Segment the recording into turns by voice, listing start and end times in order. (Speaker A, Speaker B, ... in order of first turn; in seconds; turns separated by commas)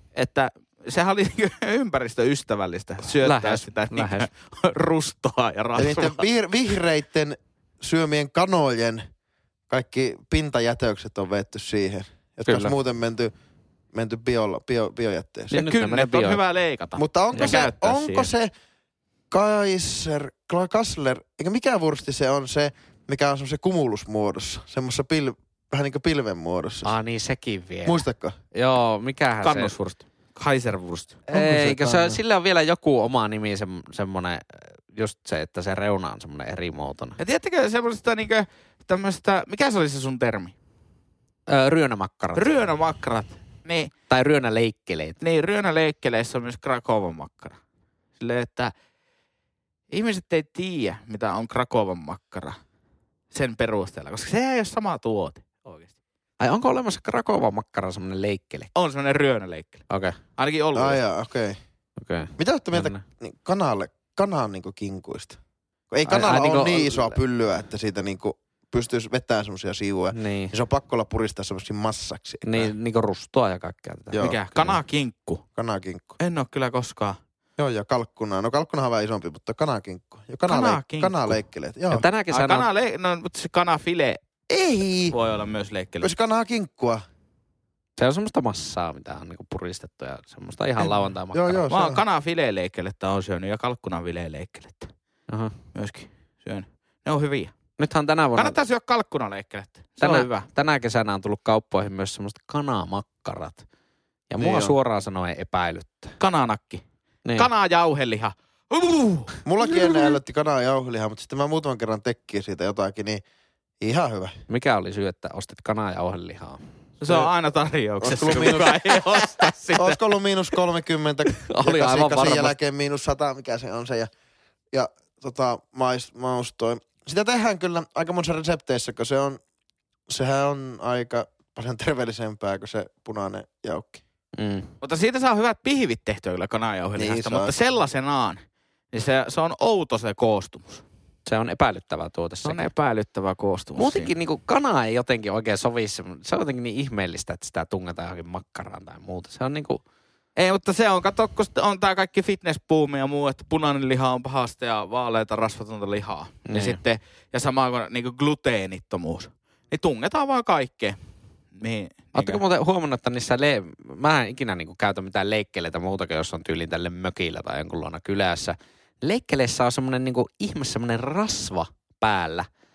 Speaker A: 0.1-6.2, Speaker B: 3.2-4.3, Speaker C: 5.8-9.0, Speaker C: 9.7-13.3, Speaker B: 12.5-12.7, Speaker C: 13.9-15.6, Speaker B: 15.5-16.4, Speaker A: 15.5-18.3, Speaker C: 17.0-18.5, Speaker B: 17.4-17.6, Speaker C: 19.3-26.9, Speaker B: 26.8-29.7, Speaker C: 27.9-28.4, Speaker A: 29.4-31.2, Speaker B: 31.3-37.2, Speaker C: 31.3-32.2, Speaker A: 37.2-40.5, Speaker B: 41.5-42.5, Speaker A: 42.3-43.9, Speaker B: 44.1-45.2, Speaker A: 45.2-47.6, Speaker A: 48.2-48.7, Speaker A: 49.9-52.6, Speaker A: 53.3-55.9, Speaker B: 56.4-58.7, Speaker A: 58.8-59.9, Speaker B: 59.9-60.2, Speaker A: 60.4-61.0, Speaker C: 60.7-61.6, Speaker B: 62.0-63.0, Speaker C: 62.4-65.4, Speaker C: 65.9-72.7, Speaker B: 66.1-67.2, Speaker B: 70.1-70.5, Speaker B: 72.5-74.8, Speaker C: 74.1-74.4, Speaker A: 74.2-75.4, Speaker C: 75.6-76.2, Speaker A: 76.2-77.2, Speaker C: 77.6-82.1, Speaker A: 80.5-81.4, Speaker B: 81.9-82.7, Speaker A: 82.3-84.2, Speaker C: 84.5-85.2, Speaker A: 85.1-86.1, Speaker C: 86.0-87.0, Speaker B: 88.0-91.7, Speaker C: 90.8-92.0, Speaker A: 91.7-94.9, Speaker B: 95.3-95.5, Speaker A: 95.7-97.5, Speaker B: 97.8-98.6, Speaker A: 98.4-100.5, Speaker B: 100.0-103.7, Speaker B: 104.3-106.2, Speaker C: 104.4-104.8, Speaker A: 106.2-106.8, Speaker A: 107.4-110.0, Speaker C: 109.5-113.2, Speaker C: 113.8-114.4, Speaker B: 114.5-116.6, Speaker A: 117.0-120.0, Speaker C: 118.0-119.2, Speaker C: 119.8-124.1, Speaker B: 121.5-122.6, Speaker C: 124.7-129.4, Speaker C: 130.1-134.0, Speaker B: 134.4-134.7, Speaker A: 134.8-138.4, Speaker C: 137.0-137.5, Speaker A: 138.9-140.8, Speaker B: 141.3-142.7, Speaker A: 142.4-144.1, Speaker B: 143.8-149.8, Speaker A: 150.4-161.0, Speaker B: 156.5-156.8, Speaker A: 161.6-162.4, Speaker B: 162.2-172.5